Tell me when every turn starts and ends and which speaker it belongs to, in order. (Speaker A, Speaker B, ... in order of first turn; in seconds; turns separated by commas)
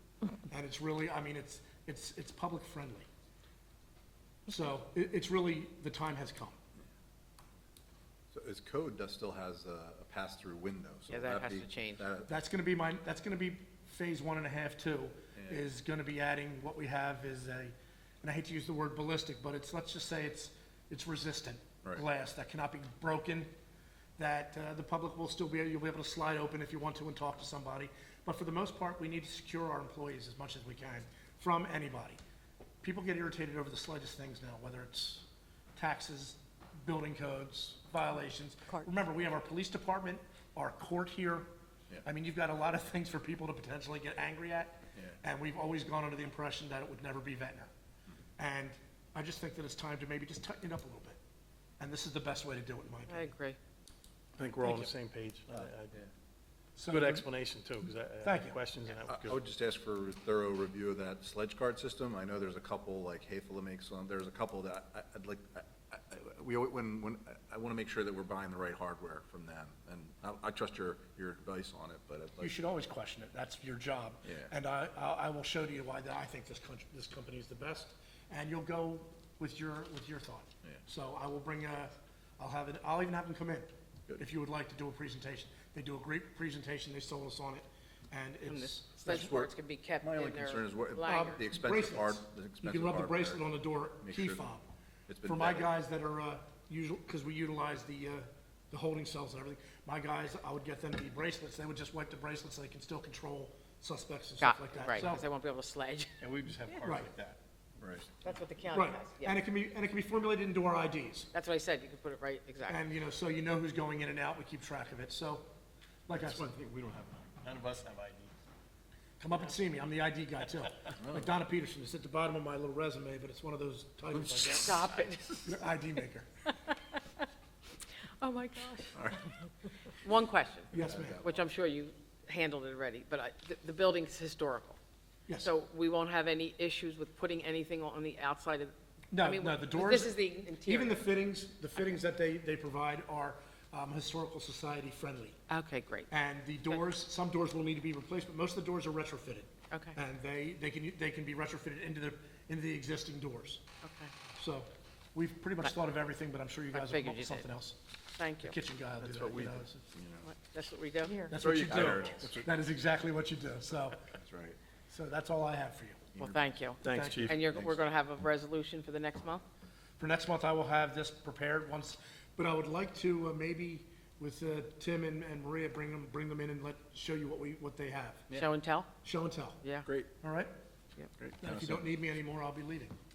Speaker A: 0.5-3.1, Speaker A: 4.5-6.6, Speaker B: 8.3-12.3, Speaker C: 11.1-12.1, Speaker A: 12.3-23.5, Speaker A: 24.2-32.2, Speaker A: 32.8-41.5, Speaker A: 42.0-47.7, Speaker A: 48.4-51.2, Speaker A: 51.8-53.3, Speaker C: 53.1-53.6, Speaker D: 54.4-56.0, Speaker A: 54.6-54.9, Speaker A: 56.8-57.3, Speaker D: 56.9-59.4, Speaker A: 58.2-58.6, Speaker B: 59.1-72.6, Speaker A: 72.4-89.3, Speaker B: 74.2-74.5, Speaker C: 88.5-91.4, Speaker B: 89.0-93.4, Speaker A: 91.0-94.7, Speaker B: 94.0-94.4, Speaker B: 95.1-95.7, Speaker A: 95.2-105.2, Speaker C: 104.4-106.2, Speaker D: 106.2-108.3, Speaker A: 106.8-107.1, Speaker C: 108.2-109.4, Speaker A: 108.7-111.3, Speaker C: 111.3-112.8, Speaker A: 112.7-115.5, Speaker A: 116.1-116.5, Speaker D: 116.2-118.3, Speaker A: 119.2-124.9, Speaker B: 121.0-121.3, Speaker C: 124.6-125.6, Speaker A: 125.5-126.3, Speaker C: 126.7-127.0, Speaker C: 128.2-129.2, Speaker B: 128.9-129.2, Speaker C: 129.9-134.8, Speaker A: 130.7-131.2, Speaker B: 130.7-131.4, Speaker C: 135.4-141.1, Speaker A: 139.1-145.4, Speaker C: 145.5-146.1, Speaker A: 146.1-153.6, Speaker C: 149.7-150.0, Speaker C: 153.8-154.1, Speaker A: 154.4-157.8, Speaker C: 156.7-157.5, Speaker C: 158.2-158.6, Speaker A: 158.4-159.9, Speaker B: 159.0-160.3, Speaker C: 160.3-161.3, Speaker A: 161.3-164.1, Speaker B: 161.3-162.5, Speaker D: 161.8-162.1, Speaker B: 164.1-164.6, Speaker A: 164.9-166.1, Speaker B: 166.2-166.5, Speaker C: 166.2-169.4, Speaker D: 166.8-167.4, Speaker A: 166.8-167.7, Speaker A: 170.0-178.3, Speaker C: 178.3-178.9, Speaker A: 179.0-179.6, Speaker C: 179.6-179.9, Speaker A: 180.2-180.5, Speaker B: 181.2-181.9, Speaker A: 181.4-182.9